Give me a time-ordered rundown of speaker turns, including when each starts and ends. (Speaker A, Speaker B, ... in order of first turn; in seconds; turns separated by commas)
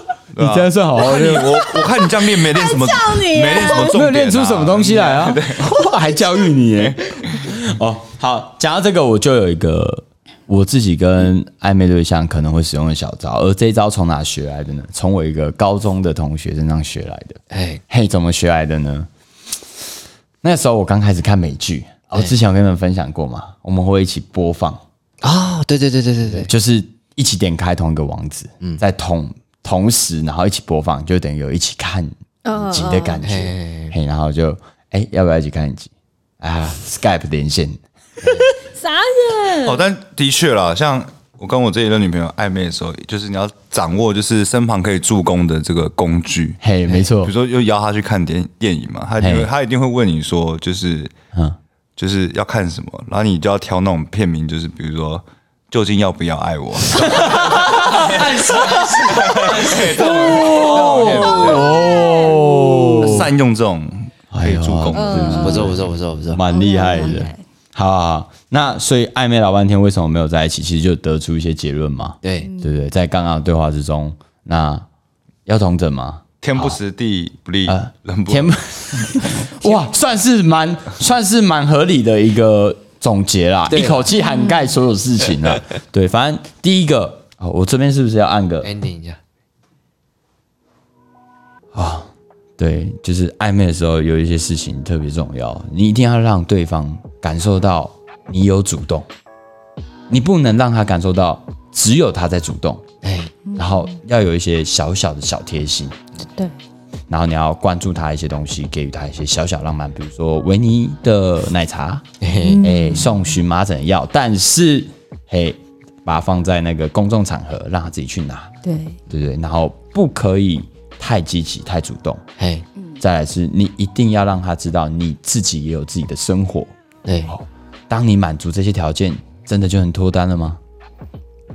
Speaker A: 0.3-5.7, Speaker B: 0.4-1.5, Speaker C: 1.2-4.0, Speaker B: 3.6-19.1, Speaker C: 5.7-6.5, Speaker D: 17.5-17.8, Speaker B: 20.4-24.8, Speaker D: 25.2-26.5, Speaker B: 26.3-37.8, Speaker C: 32.4-33.2, Speaker D: 33.2-33.9, Speaker C: 38.4-39.8, Speaker A: 39.6-46.6, Speaker B: 46.6-47.3, Speaker A: 47.2-51.1, Speaker B: 49.2-49.5, Speaker A: 52.0-57.2, Speaker D: 57.0-61.1, Speaker B: 57.4-63.3, Speaker A: 58.0-61.8, Speaker C: 61.0-63.0, Speaker A: 63.0-65.6, Speaker B: 64.3-65.8, Speaker C: 64.9-65.8, Speaker D: 65.4-66.4, Speaker B: 66.3-74.8, Speaker C: 66.5-67.4, Speaker D: 72.2-72.5, Speaker C: 72.4-72.7, Speaker B: 75.5-76.8, Speaker A: 76.4-79.3, Speaker B: 77.7-88.7, Speaker D: 83.7-84.0, Speaker C: 84.2-84.8, Speaker D: 88.6-89.2, Speaker B: 91.7-99.0, Speaker B: 100.1-102.8, Speaker D: 103.0-103.3, Speaker B: 103.5-105.9, Speaker B: 107.1-112.0, Speaker D: 112.2-112.7, Speaker C: 112.4-113.2, Speaker B: 112.6-118.5, Speaker C: 118.6-119.0, Speaker B: 119.1-122.2, Speaker D: 122.4-122.6, Speaker B: 123.0-126.7, Speaker D: 127.0-127.3, Speaker B: 127.2-130.6